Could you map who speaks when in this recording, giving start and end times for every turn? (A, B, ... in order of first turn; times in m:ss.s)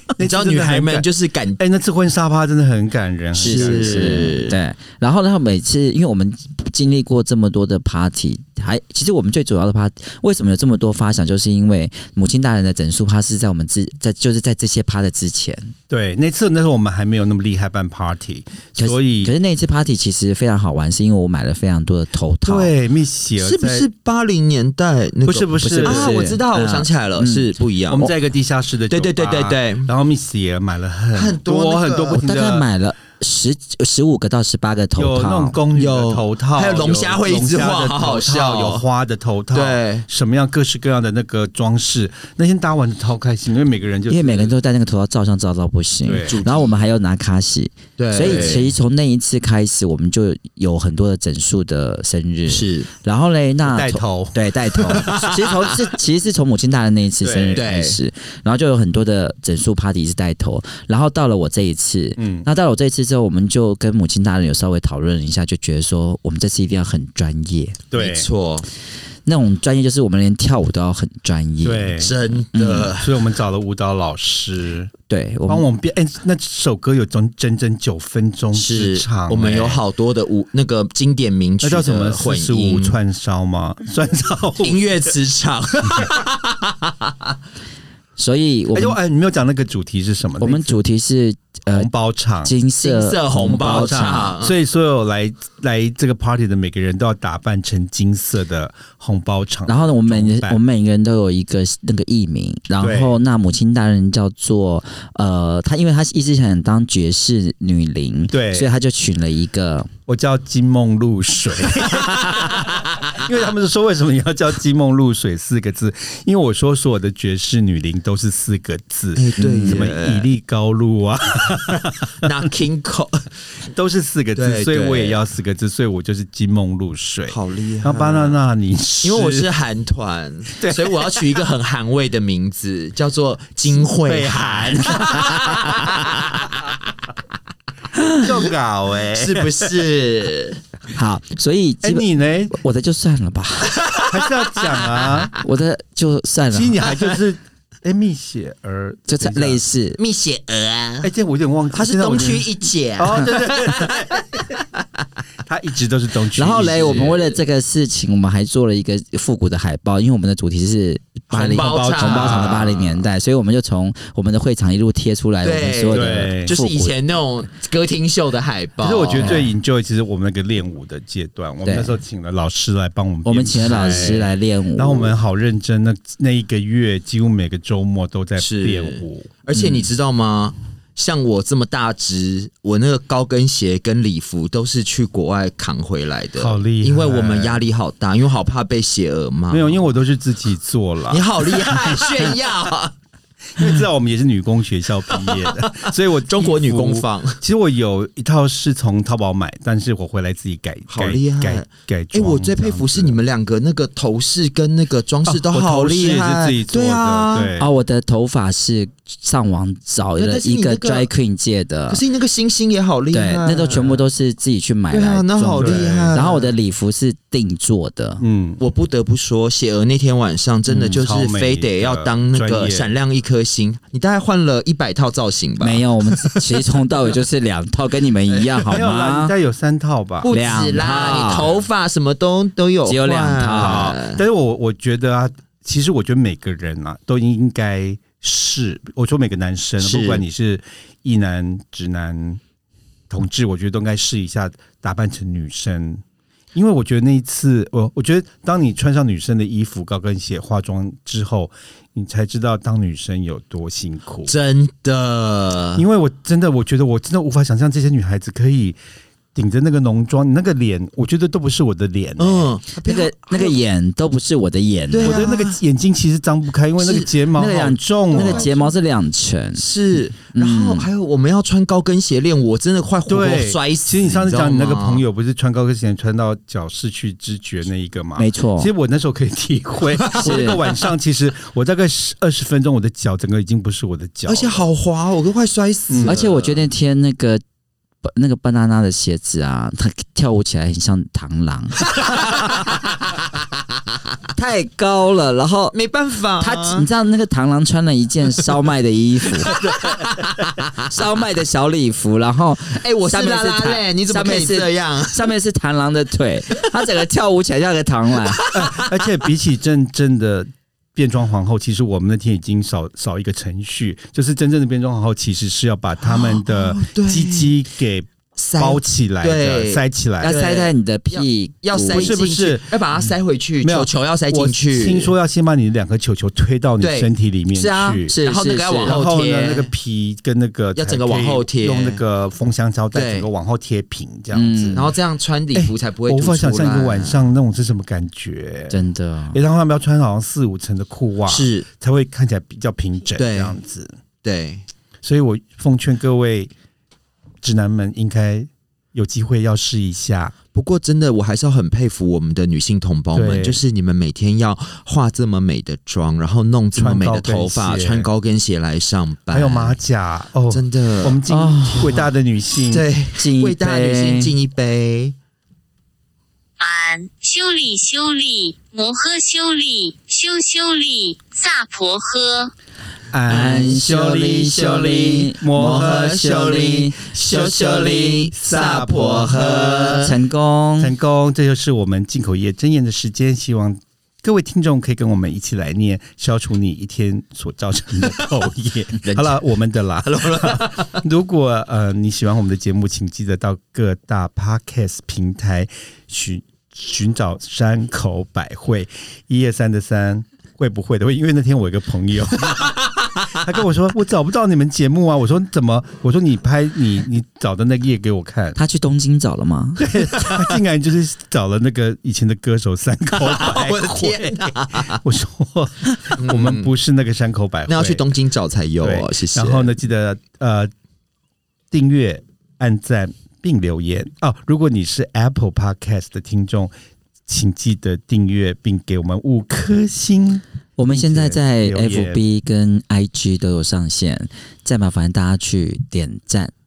0:00.2-0:01.6 A
0:00.2-0:04.4 B
0:03.4-0:04.6 A
0:03.4-0:15.7 C
0:15.9-0:19.3 B
0:18.8-0:22.7 C
0:22.4-0:23.9 B
0:23.4-0:28.0 A
0:25.3-0:26.2 B
0:25.6-0:28.1 C
0:27.9-0:32.7 B
0:28.9-0:29.9 A
0:31.1-0:32.2 A
0:32.1-0:35.6 C
0:35.0-0:44.5 B
0:35.7-0:38.8 A
0:39.5-0:40.1 A
0:44.1-1:07.8 C
0:46.0-0:46.4 B
0:46.3-0:46.8 A
0:48.0-0:48.7 A
0:48.2-0:48.6 B
0:52.5-0:52.9 A
0:53.6-0:55.3 B
0:54.8-0:55.8 A
0:57.2-0:57.6 B
0:57.5-0:58.0 A
1:02.2-1:02.5 B
1:07.9-1:08.3 B
1:07.9-1:08.7 A
1:09.2-1:12.9 C
1:11.6-1:12.1 B
1:12.0-1:13.2 A
1:12.9-1:14.9 B
1:15.1-1:15.7 C
1:15.5-1:19.8 B
1:18.5-1:23.0 A
1:21.6-1:24.8 B
1:24.6-1:27.1 A
1:28.2-1:29.0 C
1:28.7-1:30.8 B
1:30.4-1:31.9 C
1:31.7-1:32.5 B
1:32.4-1:34.3 C
1:32.8-1:34.5 A
1:33.5-1:40.6 B
1:39.7-1:49.9 C
1:42.8-1:43.2 B
1:48.3-1:48.7 B
1:50.1-2:02.3 B
1:51.8-1:53.2 A
1:59.2-2:00.3 A
1:59.4-1:59.9 C
2:02.2-2:03.3 A
2:03.7-2:09.5 B
2:04.4-2:05.2 A
2:07.3-2:08.4 A
2:09.0-2:16.8 A
2:10.6-2:11.4 B
2:13.9-2:16.0 B
2:18.2-2:19.8 B
2:19.1-2:20.6 A
2:20.9-2:23.8 C
2:21.8-2:22.6 B
2:23.7-2:25.3 A
2:23.9-2:25.3 B
2:25.4-2:26.8 C
2:26.5-2:29.6 B
2:29.1-2:30.0 C
2:30.0-2:31.1 A
2:31.0-2:34.2 B
2:31.7-2:34.8 A
2:35.4-2:37.2 B
2:36.4-2:47.0 C
2:36.6-2:37.4 A
2:41.3-2:43.0 A
2:41.3-2:42.8 B
2:45.4-2:49.5 A
2:45.9-2:46.6 B
2:48.8-2:59.9 B
2:51.6-2:51.9 C
2:53.2-2:55.1 C
2:53.6-2:54.2 A
2:58.4-3:09.9 A
3:06.4-3:07.6 B
3:09.5-3:12.0 B
3:11.1-3:12.9 A
3:13.6-3:23.2 B
3:15.1-3:17.4 A
3:20.9-3:27.5 A
3:25.2-3:27.7 B
3:27.6-3:32.0 C
3:30.2-3:31.1 A
3:31.9-3:34.0 A
3:33.1-3:38.2 C
3:34.9-3:36.5 A
3:35.6-3:36.3 B
3:38.2-3:38.6 B
3:38.6-3:46.6 A
3:40.7-3:41.0 C
3:41.0-3:42.9 B
3:45.6-3:49.3 C
3:48.6-3:51.6 B
3:50.2-3:54.2 A
3:50.3-3:51.5 C
3:52.8-3:53.9 C
3:53.5-4:02.4 B
3:59.8-4:00.2 A
4:03.1-4:06.0 B
4:06.5-4:14.3 B
4:14.2-4:15.8 A
4:15.8-4:18.8 B
4:19.3-4:22.5 B
4:22.2-4:23.6 A
4:22.8-4:25.3 C
4:24.9-4:25.6 A
4:25.0-4:28.5 B
4:26.8-4:27.1 A
4:27.3-4:29.6 C
4:28.1-4:28.7 A
4:29.5-4:35.0 A
4:30.3-4:30.9 C
4:33.1-4:44.7 B
4:38.2-4:38.7 C
4:40.0-4:40.5 A
4:40.2-4:40.6 C
4:44.2-4:46.7 A
4:45.9-4:46.2 B
4:46.0-4:47.4 C
4:48.0-4:52.4 C
4:54.3-4:55.7 C
4:55.7-4:56.9 A
4:56.4-4:59.5 C
4:59.5-5:00.5 A
4:59.6-4:59.9 B
5:00.8-5:08.4 C
5:02.7-5:05.3 A
5:08.2-5:09.0 A
5:08.5-5:20.3 B
5:16.0-5:17.6 A
5:18.4-5:25.1 A
5:20.2-5:22.2 C
5:21.9-5:28.1 B
5:26.8-5:29.7 A
5:28.0-5:29.0 C
5:28.8-5:34.8 B
5:30.7-5:32.0 A
5:32.9-5:33.3 A
5:34.3-5:34.9 C
5:34.7-5:37.2 A
5:35.5-5:44.0 B
5:38.7-5:39.4 C
5:41.3-5:41.7 A
5:43.2-5:43.5 A
5:44.2-5:44.6 A
5:45.0-5:46.5 B
5:47.4-5:50.4 B
5:50.5-5:59.8 A
5:53.1-5:53.6 B
5:56.7-5:58.1 B
5:59.3-6:02.9 B
6:00.5-6:01.2 A
6:01.3-6:02.0 C
6:02.6-6:05.1 A
6:03.2-6:04.3 C
6:06.6-6:12.5 D
6:13.1-6:13.8 B
6:13.3-6:18.0 C
6:13.3-6:20.2 A
6:15.4-6:16.2 B
6:17.3-6:20.1 B
6:20.0-6:20.9 C
6:20.8-6:48.6 B
6:28.0-6:28.4 A
6:29.0-6:29.4 A
6:30.0-6:31.0 A
6:48.6-6:50.0 C
6:49.8-6:58.1 B
6:53.2-6:55.0 A
6:56.1-6:56.7 A
6:57.7-6:59.7 A
6:58.8-7:00.7 B
7:01.7-7:06.7 B
7:07.3-7:12.2 B
7:10.8-7:16.5 C